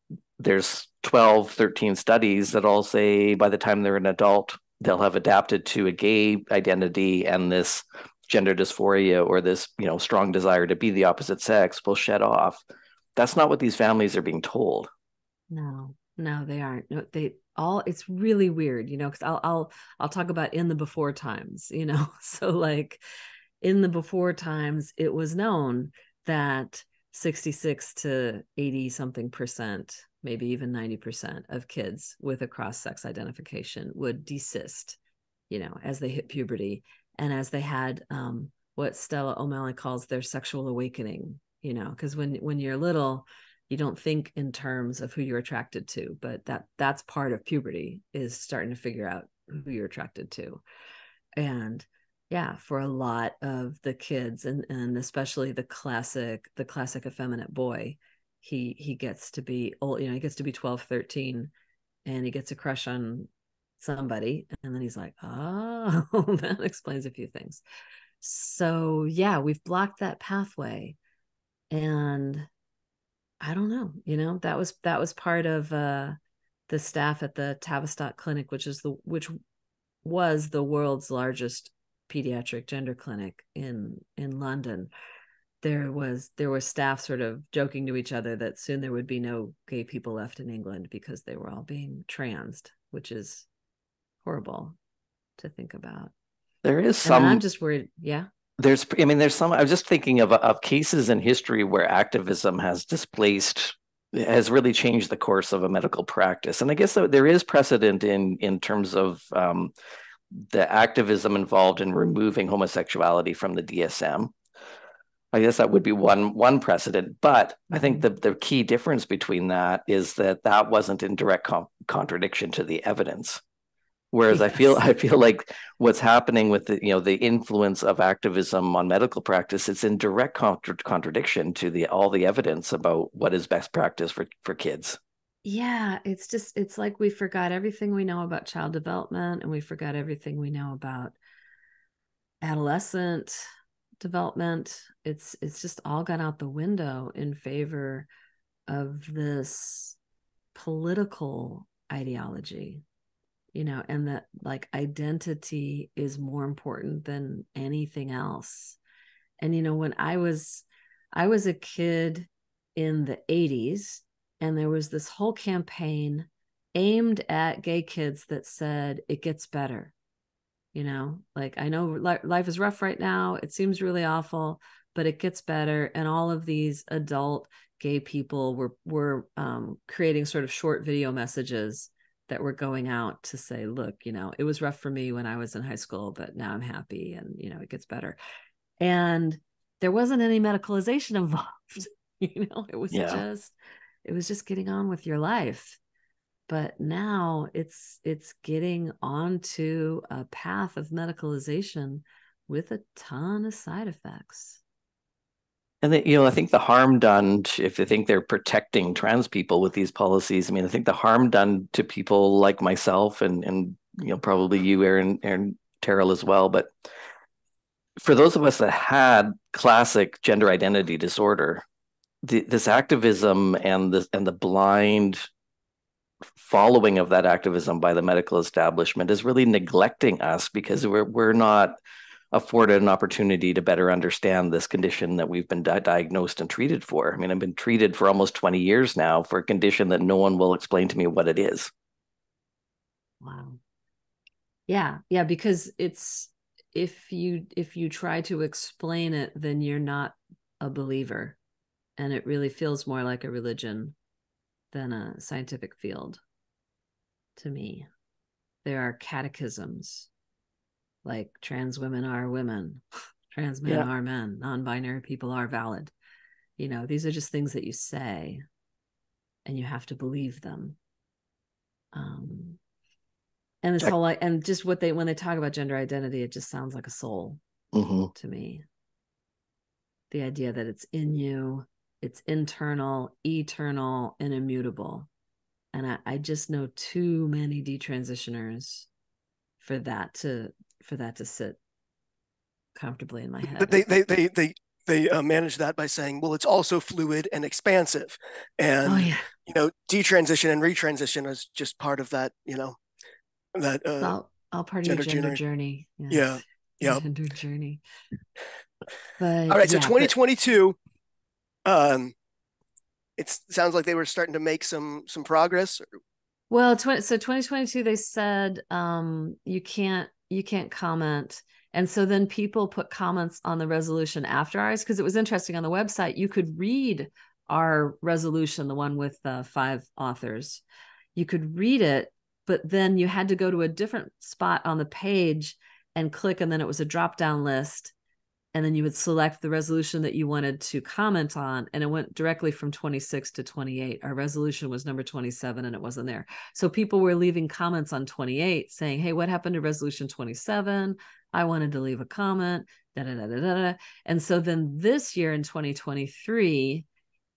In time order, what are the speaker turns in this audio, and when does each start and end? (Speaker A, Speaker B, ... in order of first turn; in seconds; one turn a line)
Speaker A: 0.4-12.6
Speaker A: 13.2-14.9
Speaker B: 15.5-23.0
Speaker B: 23.6-35.0
Speaker B: 35.5-50.6
Speaker B: 51.4-61.5
Speaker B: 62.0-67.6
Speaker B: 68.2-71.0
Speaker B: 71.7-72.5
Speaker B: 73.4-76.2
Speaker B: 76.7-79.3
Speaker B: 80.0-84.9
Speaker B: 85.6-93.5
Speaker B: 94.2-94.7
Speaker B: 95.4-96.1
Speaker A: 96.6-97.4
Speaker B: 97.0-98.3
Speaker A: 98.6-109.7
Speaker A: 110.3-114.3
Speaker A: 115.3-123.4
Speaker B: 117.7-118.0
Speaker A: 124.1-135.0
Speaker B: 124.3-124.8
Speaker B: 135.4-141.2
Speaker B: 142.4-143.4
Speaker B: 144.0-148.1
Speaker B: 148.7-150.0
Speaker B: 150.5-152.8
Speaker B: 153.5-158.8
Speaker B: 159.4-169.9
Speaker B: 170.7-188.2
Speaker B: 188.8-193.5
Speaker A: 192.9-193.2
Speaker B: 194.0-195.8
Speaker B: 196.5-204.6
Speaker A: 205.8-216.7
Speaker A: 218.0-221.6
Speaker A: 222.2-225.2
Speaker A: 226.3-231.7
Speaker A: 232.3-241.7
Speaker B: 243.2-243.6
Speaker B: 244.7-251.4
Speaker B: 252.0-253.9
Speaker B: 254.7-256.2
Speaker B: 257.4-257.9
Speaker B: 258.6-260.1
Speaker B: 261.0-265.9
Speaker B: 266.6-268.4
Speaker B: 269.4-270.8
Speaker B: 271.9-272.6
Speaker B: 273.6-277.4
Speaker A: 277.7-278.1
Speaker B: 278.1-278.6
Speaker B: 280.1-285.1
Speaker B: 285.7-288.9
Speaker B: 289.6-291.6
Speaker B: 292.7-293.8
Speaker C: 293.6-302.8
Speaker B: 298.8-299.3
Speaker C: 303.5-304.1
Speaker B: 304.0-307.8
Speaker C: 304.8-305.4
Speaker C: 306.1-307.0
Speaker B: 309.2-310.1
Speaker C: 309.5-310.8
Speaker C: 311.6-312.1
Speaker C: 313.2-315.8
Speaker B: 316.5-330.6
Speaker B: 331.1-337.9
Speaker B: 338.5-356.9